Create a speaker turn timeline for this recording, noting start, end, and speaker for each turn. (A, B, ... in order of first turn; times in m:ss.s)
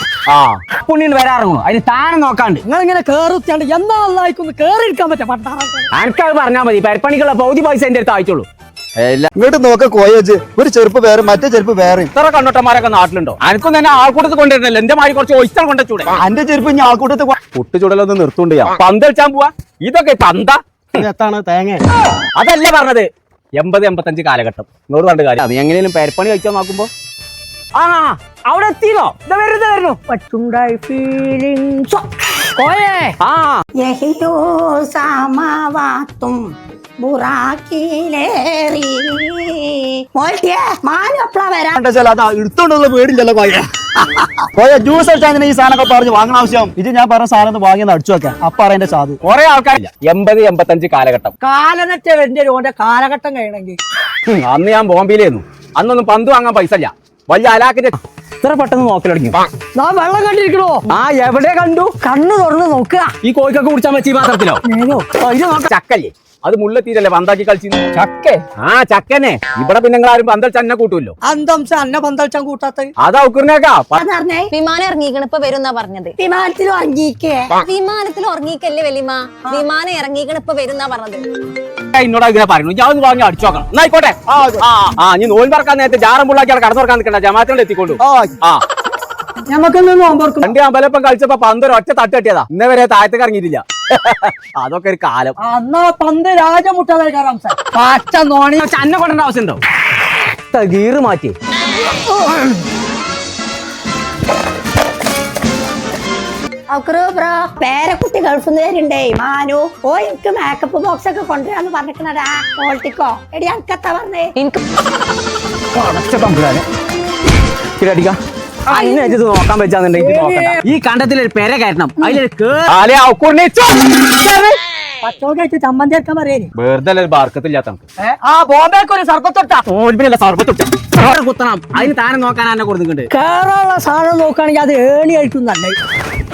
0:00.3-0:02.6 A
0:02.6-0:05.9 B
0:05.9-0:08.5 A
0:09.0-0:09.3 A
0:09.3-0:12.1 C
0:12.1-0:16.2 A
0:16.2-0:17.4 C
0:17.5-0:21.0 A
0:21.0-0:21.8 C
0:22.3-0:26.9 A
0:27.8-0:30.0 A
0:30.1-0:33.1 B
0:33.2-0:33.6 A
0:33.8-0:41.8 D
0:41.8-0:43.7 C
0:44.5-0:49.2 C
0:49.2-0:51.3 A
0:51.4-0:53.8 B
0:54.3-0:59.4 A
0:59.7-1:00.8 B
1:00.9-1:01.9 A
1:02.0-1:03.1 B
1:03.2-1:04.6 A
1:04.6-1:05.1 B
1:05.2-1:11.1 A
1:11.2-1:12.9 B
1:13.0-1:14.0 A
1:13.9-1:14.5 D
1:14.5-1:16.1 E
1:16.2-1:17.5 D
1:17.6-1:21.2 E
1:21.9-1:28.6 A
1:24.3-1:24.6 C
1:28.0-1:28.3 C
1:29.5-1:30.5 B
1:30.4-1:35.4 A
1:35.4-1:38.7 B
1:38.6-1:39.6 A
1:40.3-1:41.4 A
1:46.7-1:54.3 D
1:54.4-1:54.6 E
1:55.7-1:56.6 A
1:57.8-1:58.2 A
1:58.7-2:04.5 A
1:58.7-1:59.1 D
2:00.0-2:00.6 B
2:05.0-2:06.5 B
2:06.5-2:07.8 A
2:08.0-2:09.6 B
2:09.6-2:13.1 A
2:13.1-2:15.8 B